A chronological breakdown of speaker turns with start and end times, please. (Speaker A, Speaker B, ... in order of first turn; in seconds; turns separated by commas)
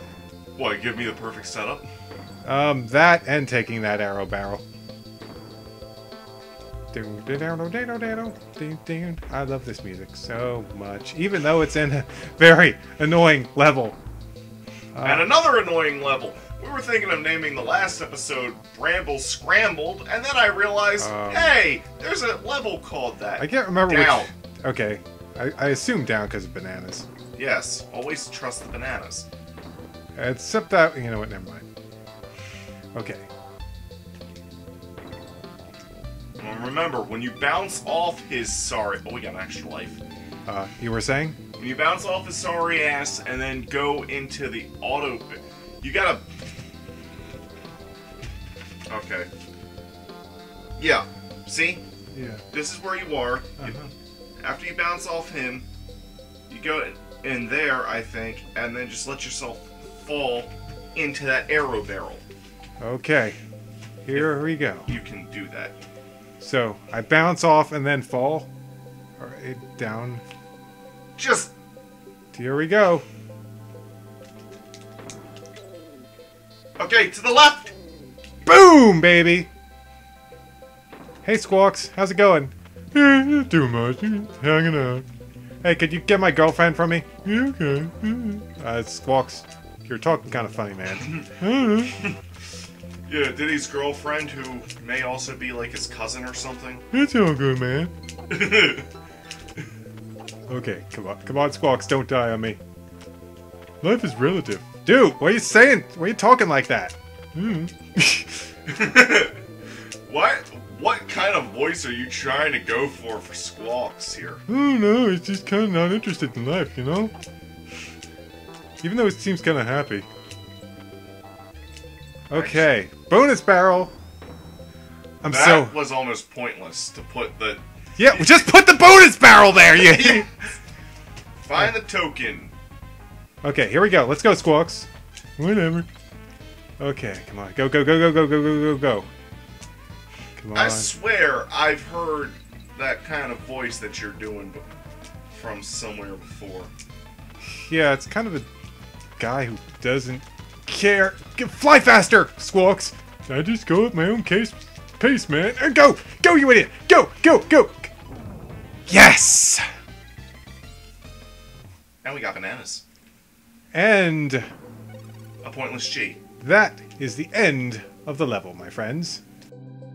Speaker A: 0.6-1.9, Speaker B: 2.5-4.6, Speaker B: 6.9-14.0, Speaker B: 14.9-15.3, Speaker A: 15.0-24.3, Speaker B: 21.0-21.6, Speaker B: 23.4-27.1, Speaker A: 27.4-29.3, Speaker B: 30.2-31.6, Speaker B: 32.9-33.2, Speaker A: 36.4-40.0, Speaker B: 40.5-41.4, Speaker A: 41.6-46.2, Speaker A: 48.9-49.3, Speaker A: 50.8-51.8, Speaker B: 52.1-52.4, Speaker A: 52.5-53.8, Speaker B: 53.6-53.9, Speaker A: 54.4-55.7, Speaker A: 56.5-62.2, Speaker B: 62.8-63.4, Speaker B: 64.0-64.9, Speaker A: 64.1-65.8, Speaker B: 66.4-68.5, Speaker B: 69.2-70.2, Speaker A: 71.2-71.5, Speaker B: 72.3-73.0, Speaker A: 76.8-77.7, Speaker B: 78.4-79.5, Speaker B: 81.2-85.1, Speaker B: 85.6-91.9, Speaker A: 91.0-91.3, Speaker A: 93.1-96.8, Speaker B: 96.9-97.9, Speaker A: 98.3-98.9, Speaker B: 100.5-102.6, Speaker B: 103.8-108.5, Speaker A: 108.7-109.4, Speaker A: 110.0-114.4, Speaker B: 114.5-117.1, Speaker B: 118.8-120.1, Speaker B: 122.3-123.9, Speaker A: 122.3-122.7, Speaker B: 125.2-125.7, Speaker A: 125.3-128.3, Speaker B: 128.0-130.3, Speaker A: 129.8-130.2, Speaker A: 131.4-132.5, Speaker B: 133.4-135.9, Speaker B: 136.8-139.1, Speaker B: 140.4-140.9, Speaker A: 140.5-144.7, Speaker A: 145.3-146.7, Speaker B: 147.4-148.5, Speaker B: 149.2-157.9, Speaker B: 158.9-159.6, Speaker A: 162.0-162.8, Speaker B: 163.7-164.4, Speaker A: 165.4-166.2, Speaker B: 166.4-169.2